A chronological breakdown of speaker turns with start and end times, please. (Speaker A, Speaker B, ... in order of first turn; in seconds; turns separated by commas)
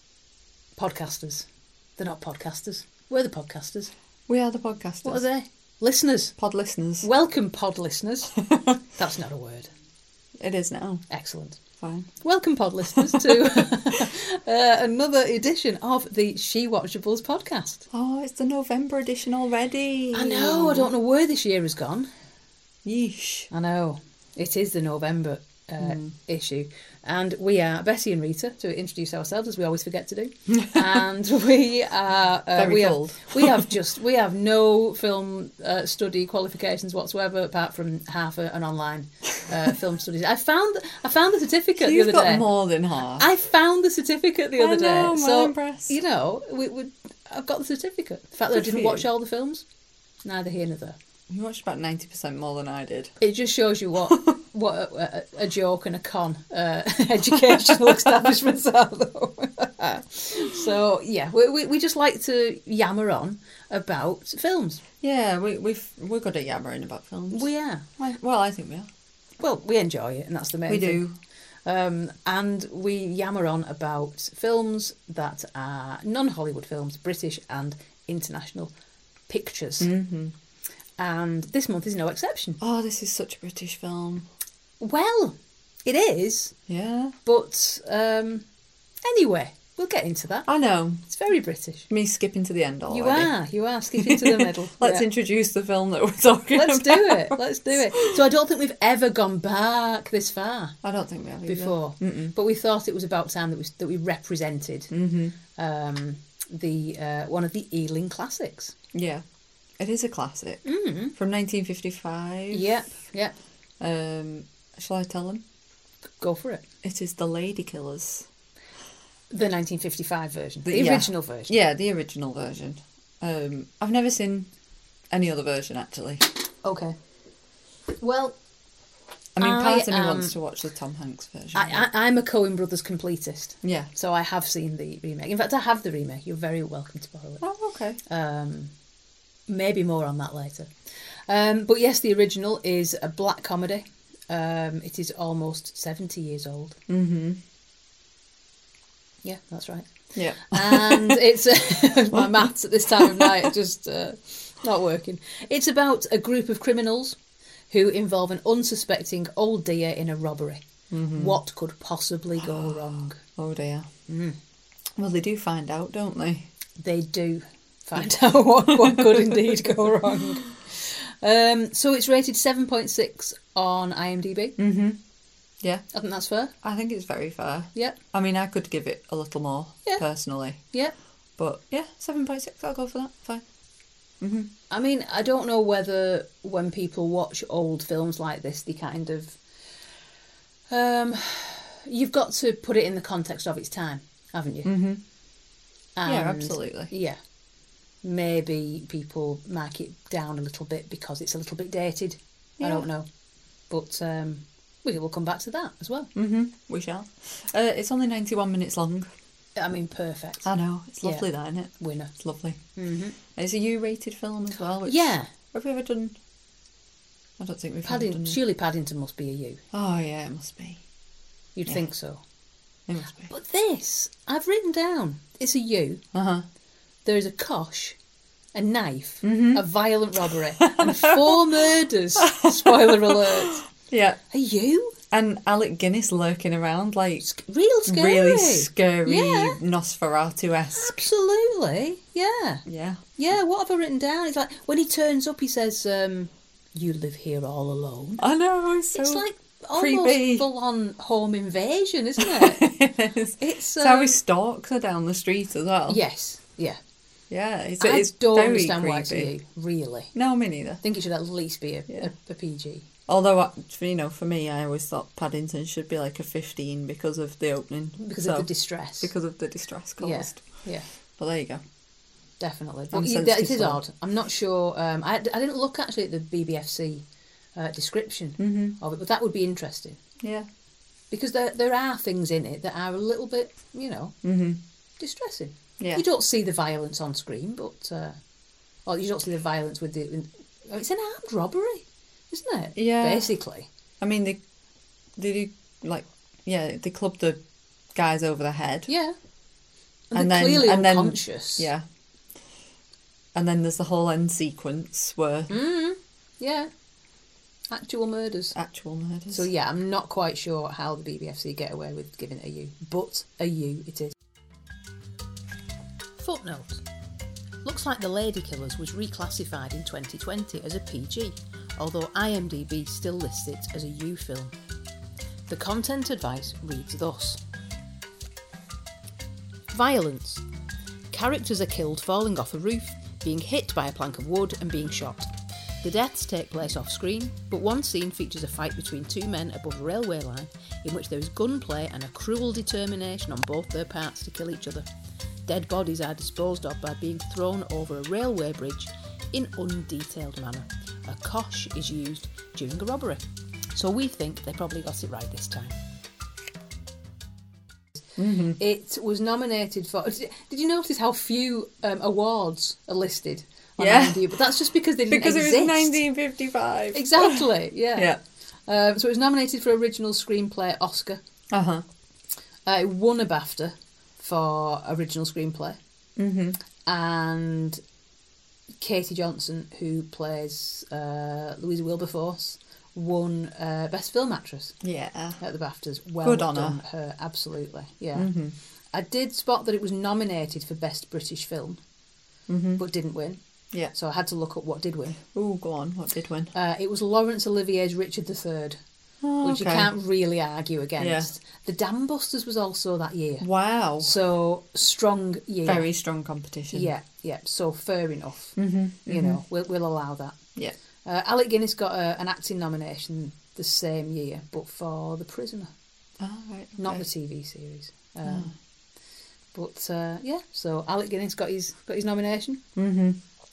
Speaker A: 0.8-1.4, Speaker A: 2.0-3.9, Speaker B: 4.3-5.2, Speaker A: 5.0-6.3, Speaker B: 6.4-7.1, Speaker A: 7.0-8.3, Speaker B: 8.5-8.8, Speaker A: 8.9-9.7, Speaker B: 10.4-11.0, Speaker A: 11.1-11.6, Speaker B: 11.8-12.1, Speaker A: 12.2-17.8, Speaker B: 12.9-13.4, Speaker B: 17.9-20.9, Speaker A: 20.1-22.1, Speaker B: 22.8-23.5, Speaker A: 23.5-42.5, Speaker B: 25.8-26.1, Speaker B: 32.5-33.7, Speaker B: 41.8-43.3, Speaker A: 43.1-49.6, Speaker B: 44.6-45.9, Speaker B: 48.5-49.0, Speaker A: 50.2-51.0, Speaker B: 51.3-53.1, Speaker A: 53.2-64.8, Speaker B: 57.4-58.3, Speaker B: 65.0-67.5, Speaker A: 67.3-67.8, Speaker B: 68.0-68.9, Speaker A: 69.4-71.0, Speaker B: 70.7-71.1, Speaker A: 71.7-78.7, Speaker A: 79.3-79.9, Speaker B: 79.8-80.3, Speaker A: 81.0-82.6, Speaker B: 82.6-84.3, Speaker A: 84.8-86.5, Speaker B: 86.7-87.1, Speaker A: 87.2-88.4, Speaker A: 89.0-90.5, Speaker B: 90.5-91.0, Speaker A: 91.0-91.9, Speaker B: 91.9-93.3, Speaker A: 92.9-95.1, Speaker B: 94.0-98.2, Speaker A: 96.5-100.8, Speaker B: 100.8-102.3, Speaker A: 101.4-104.9, Speaker B: 104.9-105.3, Speaker A: 105.5-108.7, Speaker B: 108.9-109.2, Speaker B: 109.8-112.7, Speaker A: 110.6-111.1, Speaker A: 112.5-113.3, Speaker B: 113.8-115.4, Speaker A: 116.2-116.6, Speaker B: 116.8-118.3, Speaker A: 119.3-121.5, Speaker B: 120.6-124.5, Speaker B: 125.1-126.2, Speaker A: 126.6-127.0, Speaker A: 128.0-128.4, Speaker B: 129.3-131.8, Speaker A: 129.4-130.3, Speaker A: 131.5-137.4, Speaker B: 133.6-133.9, Speaker B: 137.4-138.0, Speaker A: 138.1-138.7, Speaker A: 139.5-140.7, Speaker A: 141.3-146.8, Speaker B: 146.9-147.4, Speaker A: 149.2-157.2, Speaker B: 150.1-151.2, Speaker B: 152.1-153.5, Speaker A: 157.7-163.2, Speaker B: 160.9-161.4, Speaker B: 162.4-163.9, Speaker A: 164.1-164.4, Speaker B: 164.9-166.5, Speaker A: 166.8-174.6, Speaker B: 168.7-170.2, Speaker B: 174.6-175.0, Speaker A: 175.9-176.5, Speaker B: 176.6-180.6, Speaker B: 181.4-183.4, Speaker B: 184.2-184.5, Speaker A: 184.7-189.4, Speaker A: 190.7-194.7, Speaker B: 194.6-195.0, Speaker A: 195.9-197.2, Speaker B: 196.1-196.9, Speaker A: 198.0-203.1, Speaker B: 202.6-202.9, Speaker A: 203.7-206.1, Speaker B: 206.1-209.1, Speaker A: 209.6-210.5, Speaker B: 210.4-212.6, Speaker A: 211.8-212.1, Speaker A: 212.8-213.2, Speaker B: 213.3-216.2, Speaker A: 214.8-215.3, Speaker B: 217.4-218.4, Speaker A: 217.8-219.6, Speaker B: 219.7-220.8, Speaker A: 221.6-222.2, Speaker B: 222.9-223.3, Speaker A: 223.3-226.0, Speaker B: 226.1-226.4, Speaker A: 227.0-227.9, Speaker A: 228.5-233.6, Speaker B: 229.2-229.6, Speaker B: 230.6-231.4, Speaker B: 232.2-234.2, Speaker A: 234.3-235.0, Speaker B: 235.1-237.2, Speaker A: 237.2-239.6, Speaker B: 237.8-241.0, Speaker A: 240.7-242.6, Speaker B: 242.7-243.0, Speaker A: 243.2-248.2, Speaker B: 248.2-249.2, Speaker A: 248.9-252.7, Speaker B: 249.7-250.5, Speaker B: 252.2-256.0, Speaker A: 253.4-254.2, Speaker A: 255.9-256.8, Speaker B: 257.3-259.3, Speaker A: 257.8-260.1, Speaker B: 260.1-260.8, Speaker A: 260.8-262.9, Speaker B: 263.1-268.5, Speaker A: 268.0-269.1, Speaker B: 269.0-270.6, Speaker A: 270.0-270.9, Speaker B: 271.2-271.6, Speaker A: 272.4-277.0, Speaker B: 272.9-273.8, Speaker A: 277.5-280.0, Speaker B: 278.4-278.8, Speaker B: 280.2-280.5, Speaker A: 281.1-284.1, Speaker B: 284.2-284.6, Speaker A: 285.0-288.2, Speaker A: 288.9-293.7, Speaker B: 292.8-293.3, Speaker B: 294.0-294.4, Speaker B: 295.2-297.4, Speaker B: 297.9-298.9, Speaker A: 298.9-299.1, Speaker A: 300.1-301.7, Speaker B: 300.1-301.8, Speaker B: 303.3-305.5, Speaker A: 305.5-306.7, Speaker A: 307.7-308.5, Speaker B: 308.5-309.5, Speaker A: 309.3-314.1, Speaker A: 316.2-316.8, Speaker A: 317.6-324.5, Speaker A: 325.5-327.4, Speaker A: 329.7-330.4, Speaker A: 331.1-335.3, Speaker A: 335.8-344.8, Speaker A: 345.5-353.2, Speaker A: 353.7-355.7, Speaker B: 358.2-358.6, Speaker A: 358.6-366.0, Speaker B: 363.8-368.2, Speaker A: 366.9-368.1, Speaker A: 368.7-371.2, Speaker B: 371.5-371.8, Speaker A: 372.6-375.8, Speaker B: 376.2-376.6, Speaker A: 376.9-377.8, Speaker A: 378.8-384.8, Speaker B: 384.8-385.4, Speaker A: 385.4-388.3, Speaker B: 386.2-386.8, Speaker B: 388.1-388.5, Speaker A: 388.9-391.8, Speaker B: 392.5-392.8, Speaker A: 392.8-393.4, Speaker A: 393.9-395.2, Speaker B: 395.3-396.5, Speaker A: 396.5-398.8, Speaker B: 399.2-399.9, Speaker A: 399.4-403.5, Speaker B: 401.0-401.3, Speaker B: 403.4-404.1, Speaker A: 404.0-405.9, Speaker B: 405.6-406.9, Speaker A: 406.7-410.4, Speaker B: 408.6-409.4, Speaker A: 411.0-415.7, Speaker B: 416.2-417.0, Speaker A: 416.8-418.5, Speaker B: 418.2-418.5, Speaker A: 419.5-422.6, Speaker B: 422.8-423.2